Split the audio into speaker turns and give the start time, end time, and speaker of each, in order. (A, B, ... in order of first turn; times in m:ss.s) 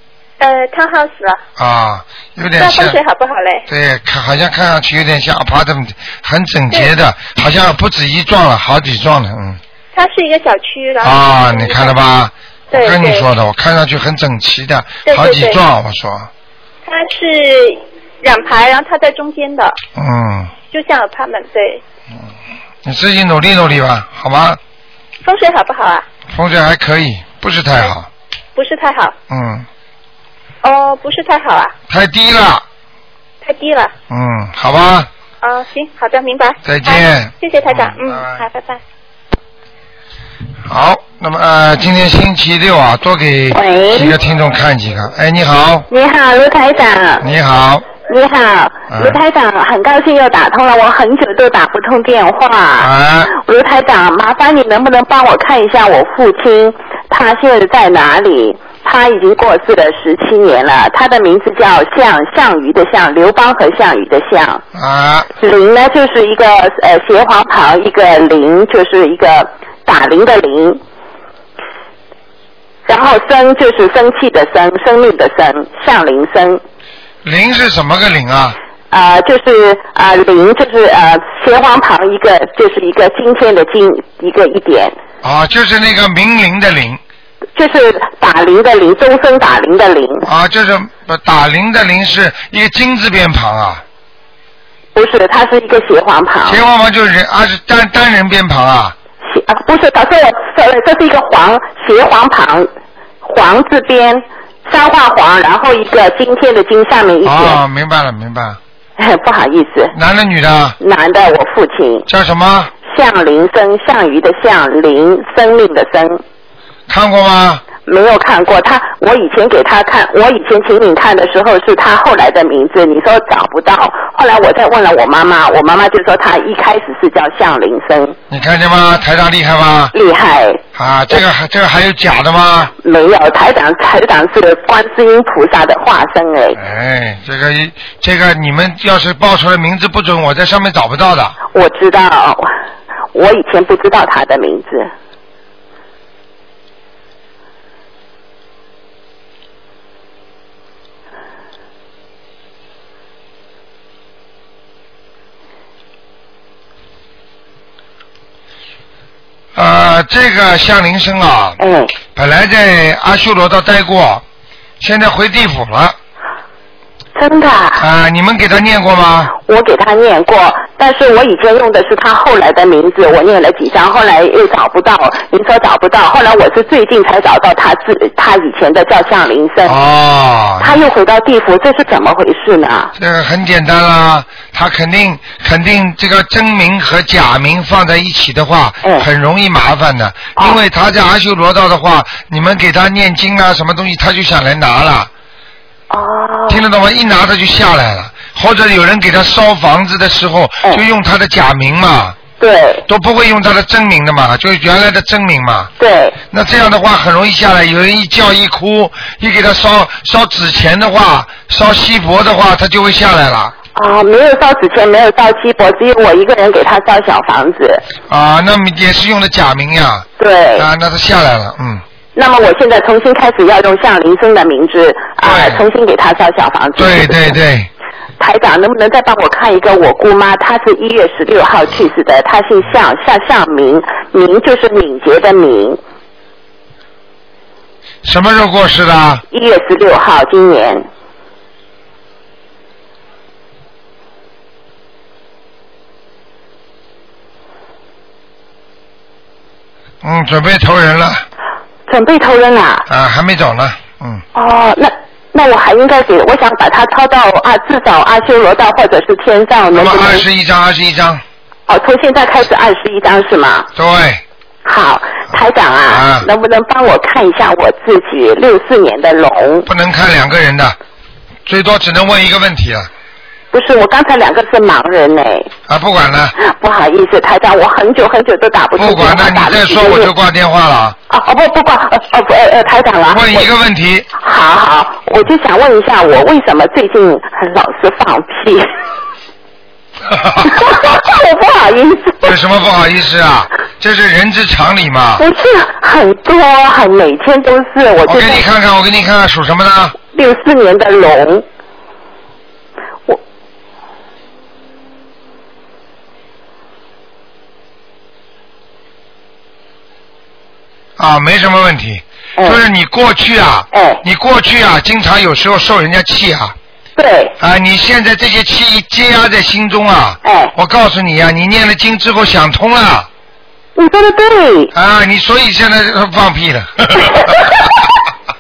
0:00.4-0:01.4 A
0:01.6-0:03.0 B
0:02.6-0:03.6 A
0:03.7-0:09.6 B
0:09.9-0:12.0 A
0:11.0-0:16.3 B
0:12.7-0:13.3 A
0:15.0-0:15.6 A
0:16.8-0:19.8 A
0:19.9-0:20.5 B
0:20.7-0:21.8 A
0:22.8-0:24.6 B
0:25.2-0:26.0 A
0:26.3-0:28.1 B
0:28.5-0:29.1 A
0:29.3-0:29.6 B
0:30.6-0:31.7 A
0:31.9-0:32.6 B
0:33.4-0:33.9 A
0:34.1-0:35.1 B
0:35.4-0:38.8 A
0:36.6-0:38.3 B
0:40.6-0:45.8 B
0:43.5-0:44.2 C
0:45.9-0:47.2 C
0:47.2-0:47.8 B
0:47.9-1:04.6 C
0:48.9-0:49.2 B
0:52.8-0:53.3 B
1:04.7-1:05.3 B
1:05.4-1:10.8 C
1:12.9-1:16.6 C
1:17.2-1:18.6 B
1:18.9-1:25.0 C
1:25.2-1:27.0 B
1:27.6-1:30.3 C
1:30.2-1:33.8 B
1:34.9-1:36.6 C
1:36.4-1:38.9 B
1:39.2-1:42.7 C
1:43.2-1:47.6 C
1:47.2-1:48.6 B
1:49.0-1:49.9 C
1:49.9-1:50.8 B
1:50.8-1:52.1 C
1:52.1-1:52.7 B
1:52.8-1:56.2 C
1:56.9-1:57.6 B
1:57.8-2:08.2 C
2:08.3-2:09.9 B
2:09.9-2:10.6 C
2:10.7-2:12.7 B
2:12.8-2:16.6 C
2:16.6-2:21.4 B
2:21.5-2:22.5 C
2:23.1-2:24.9 C
2:39.5-2:41.6 B
2:41.6-2:42.0 C
2:42.1-2:44.2 B
2:44.8-2:46.0 B
2:47.2-2:47.8 C
2:47.8-2:49.3 B
2:49.3-2:59.8 C
2:59.6-3:00.8 B
3:00.6-3:02.9 C
3:03.0-3:15.1 B
3:15.9-3:16.6 C
3:16.5-3:22.2 B
3:22.4-3:22.8 C
3:22.9-3:25.7 B
3:25.8-3:26.2 C
3:26.3-3:33.5 B
3:33.7-3:37.8 C
3:38.1-3:41.8 B
3:40.2-3:40.7 C
3:42.2-3:47.4 C
3:45.2-3:45.6 B
3:46.8-3:47.7 B
3:48.2-3:55.8 C
3:58.0-3:59.2 B
3:59.3-4:00.9 C
4:10.0-4:11.2 B
4:11.9-4:12.8 C
4:12.9-4:14.2 B
4:14.3-4:20.2 C
4:19.7-4:21.2 B
4:21.7-4:23.7 C
4:23.7-4:24.2 B
4:24.6-4:29.7 C
4:25.9-4:26.3 B
4:29.6-4:30.8 B
4:31.4-4:32.9 B
4:33.5-4:35.5 C
4:35.7-4:36.3 B
4:36.4-4:40.1 C
4:38.8-4:41.0 B
4:41.1-4:43.5 C
4:43.1-4:44.1 B
4:44.1-4:48.7 C
4:50.1-4:50.6 B
4:50.4-4:52.3 C
4:52.2-4:55.2 B
4:55.2-4:58.4 C
4:58.0-5:00.0 B
5:00.1-5:01.4 C
5:11.0-5:16.5 B
5:13.7-5:14.0 C
5:17.0-5:17.3 C
5:17.4-5:23.1 B
5:20.2-5:20.5 C
5:23.8-5:24.7 C
5:24.7-5:27.5 B
5:27.0-5:27.7 C